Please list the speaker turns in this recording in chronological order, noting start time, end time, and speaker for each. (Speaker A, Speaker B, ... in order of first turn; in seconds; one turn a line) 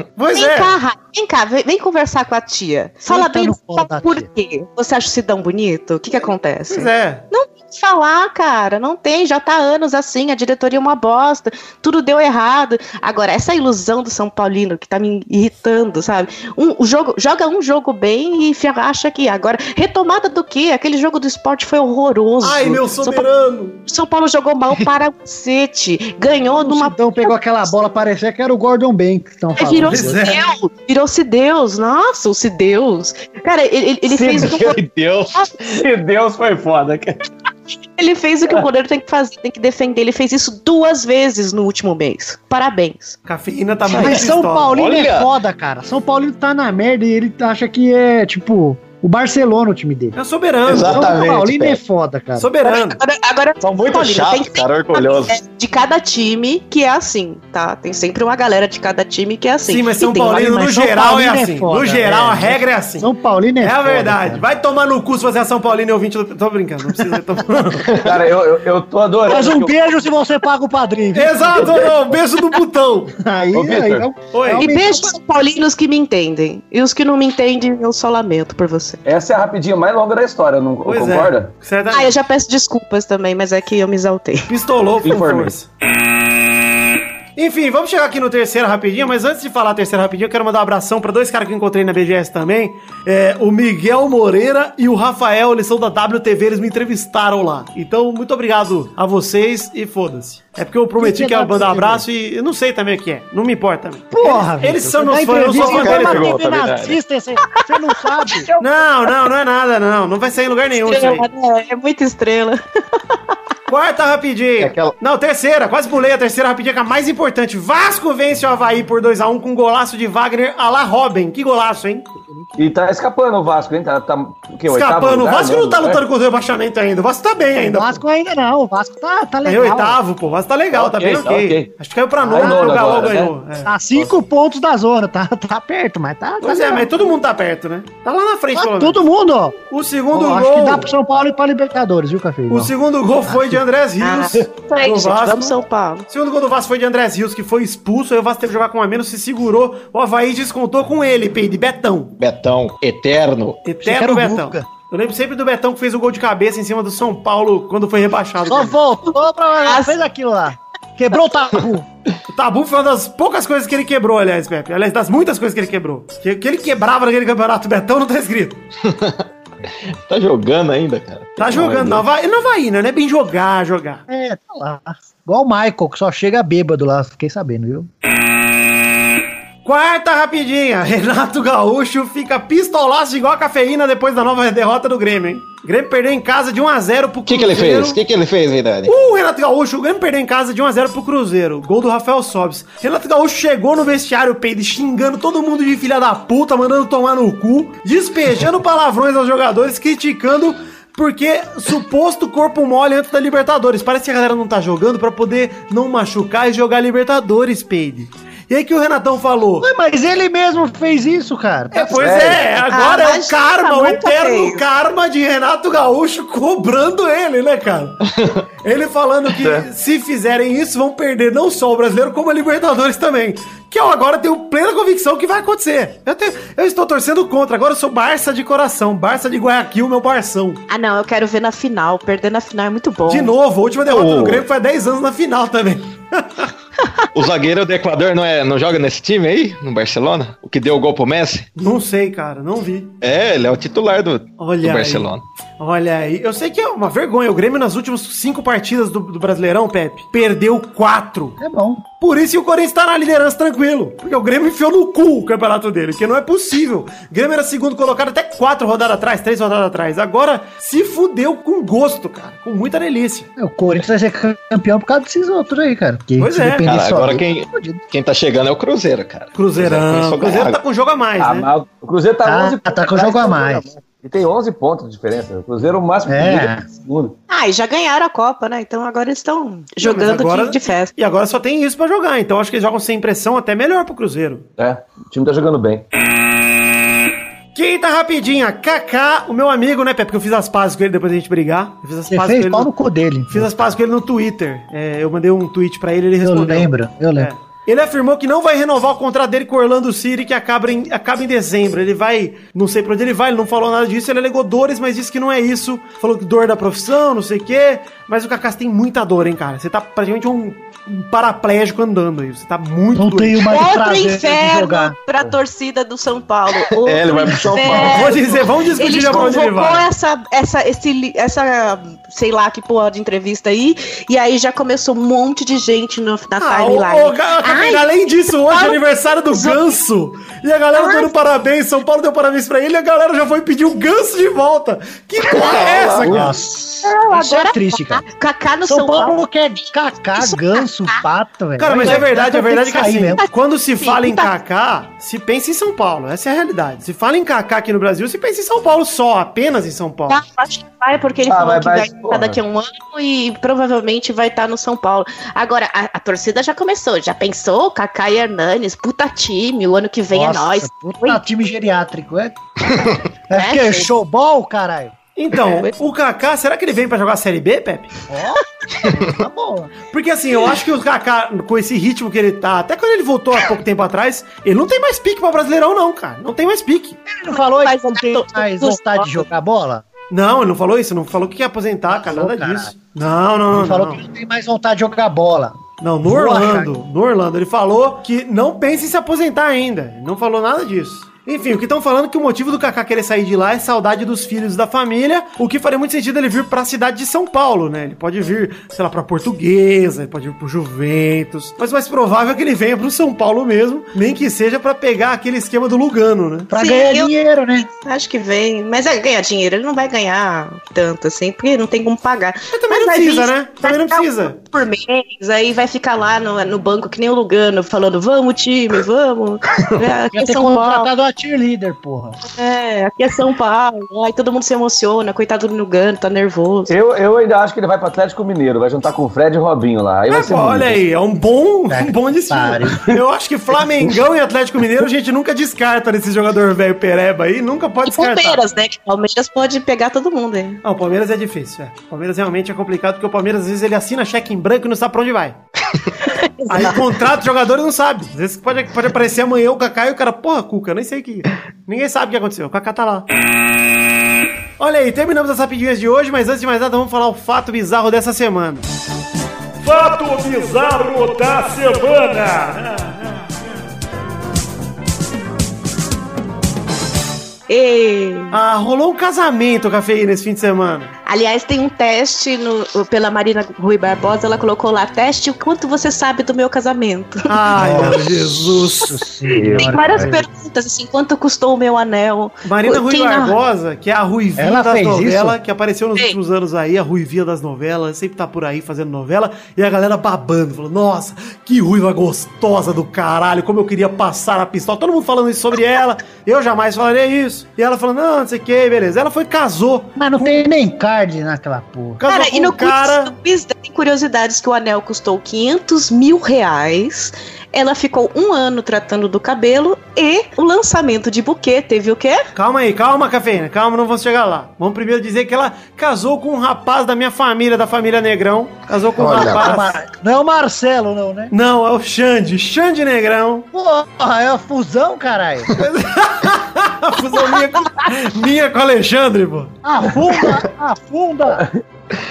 Speaker A: 0.2-0.8
Speaker B: 0.3-23.3
Speaker C: 3.1-4.3
Speaker A: 6.7-7.2
Speaker A: 22.4-23.8
Speaker B: 23.9-27.3
Speaker C: 26.6-30.2
Speaker B: 29.6-34.8
Speaker A: 29.9-30.5
Speaker D: 34.1-34.8
Speaker E: 34.4-35.5
Speaker D: 35.6-37.2
Speaker B: 38.0-43.2
Speaker A: 43.2-44.7
Speaker C: 43.9-50.2
Speaker E: 44.7-45.3
Speaker A: 50.2-51.1
Speaker E: 50.6-51.8
Speaker C: 50.8-52.5
Speaker A: 52.4-53.0
Speaker B: 52.6-60.6
Speaker E: 53.6-55.4
Speaker A: 59.6-63.1
Speaker C: 60.4-64.4
Speaker A: 63.6-68.0
Speaker D: 68.0-70.0
Speaker C: 69.3-71.7
Speaker A: 71.1-73.2
Speaker C: 73.2-75.1
Speaker D: 73.5-74.1
Speaker A: 74.3-74.7
Speaker B: 74.6-79.0
Speaker D: 79.0-81.5
Speaker A: 80.8-82.2
Speaker B: 81.9-84.5
Speaker A: 84.5-85.7
Speaker D: 85.0-85.6
Speaker A: 87.4-106.3
Speaker C: 101.0-102.0
Speaker C: 104.1-108.5
Speaker E: 105.5-107.0
Speaker B: 108.4-108.7
Speaker A: 108.6-111.2
Speaker B: 110.7-113.3
Speaker A: 113.7-122.1
Speaker E: 114.6-115.0
Speaker D: 122.6-126.0
Speaker A: 124.7-128.0
Speaker C: 127.6-130.0
Speaker A: 129.4-133.7
Speaker D: 130.7-131.7
Speaker D: 132.2-133.3
Speaker C: 132.3-133.1
Speaker C: 133.7-136.9
Speaker A: 136.4-139.0
Speaker C: 138.6-139.6
Speaker A: 139.7-140.9
Speaker C: 140.1-142.7
Speaker A: 142.5-145.6
Speaker C: 143.3-143.6
Speaker B: 144.0-146.1
Speaker A: 146.1-152.2
Speaker E: 152.2-153.6
Speaker A: 153.7-158.8
Speaker C: 153.8-154.7
Speaker C: 158.5-161.9
Speaker B: 159.6-159.9
Speaker A: 162.3-168.6
Speaker E: 168.8-169.2
Speaker E: 170.1-172.0
Speaker A: 171.4-174.0
Speaker D: 171.5-172.0
Speaker C: 174.1-177.9
Speaker A: 179.7-188.0
Speaker E: 187.3-188.9
Speaker A: 188.9-209.7
Speaker C: 209.6-212.1
Speaker A: 211.7-218.0
Speaker D: 211.9-212.6
Speaker B: 212.7-214.6
Speaker E: 218.2-218.4
Speaker A: 218.6-230.6
Speaker B: 230.7-233.3
Speaker A: 233.1-236.5
Speaker E: 233.9-234.4
Speaker E: 237.1-241.5
Speaker A: 241.6-242.9
Speaker E: 243.0-245.2
Speaker A: 244.4-251.4
Speaker C: 251.4-251.8
Speaker A: 252.0-263.3
Speaker C: 263.4-267.8
Speaker A: 266.2-266.7
Speaker E: 266.7-270.6
Speaker A: 269.4-271.5
Speaker D: 271.2-277.1
Speaker C: 272.2-273.6
Speaker C: 276.1-276.6
Speaker B: 277.3-280.9
Speaker A: 279.8-284.5
Speaker D: 284.6-285.9
Speaker A: 287.6-292.7
Speaker C: 292.1-293.5
Speaker A: 293.3-313.5
Speaker C: 296.2-297.3
Speaker C: 312.9-314.9
Speaker B: 313.5-329.7
Speaker E: 316.7-318.5
Speaker A: 317.8-319.9
Speaker A: 326.4-336.4
Speaker B: 330.7-331.1
Speaker E: 335.2-336.3
Speaker C: 336.1-338.0
Speaker B: 336.8-339.3
Speaker C: 338.6-343.2
Speaker B: 340.1-341.0
Speaker A: 341.6-350.2
Speaker B: 343.8-344.3
Speaker B: 350.1-361.2
Speaker D: 351.3-352.4
Speaker C: 360.1-362.4
Speaker C: 363.3-364.9
Speaker B: 363.3-363.9
Speaker A: 365.2-367.9
Speaker C: 368.1-369.7
Speaker A: 369.9-377.0
Speaker C: 377.1-379.8
Speaker B: 377.3-379.3
Speaker A: 380.1-384.0
Speaker C: 381.9-382.7
Speaker C: 383.5-386.7
Speaker A: 385.8-406.5
Speaker C: 406.5-407.7
Speaker B: 406.5-407.1
Speaker B: 407.7-420.9
Speaker A: 412.5-414.4
Speaker C: 420.1-422.2
Speaker B: 422.3-426.7
Speaker D: 426.7-430.8
Speaker A: 430.1-438.4
Speaker C: 431.7-432.9
Speaker B: 437.9-440.6
Speaker A: 440.6-445.4
Speaker B: 446.0-446.8
Speaker A: 446.5-453.1
Speaker A: 454.6-458.7
Speaker F: 459.6-462.9
Speaker B: 467.5-468.4
Speaker A: 468.3-470.9
Speaker B: 471.1-478.0
Speaker A: 477.3-478.9
Speaker C: 477.6-480.2
Speaker D: 479.4-480.0
Speaker B: 479.5-483.4
Speaker A: 482.4-500.3
Speaker C: 484.4-485.4
Speaker C: 500.0-502.0
Speaker A: 502.0-503.1
Speaker B: 502.1-512.3
Speaker A: 512.4-519.8
Speaker E: 519.0-519.5
Speaker C: 519.2-521.3
Speaker A: 521.3-523.5
Speaker C: 523.5-525.5
Speaker A: 525.5-529.5
Speaker C: 529.6-531.5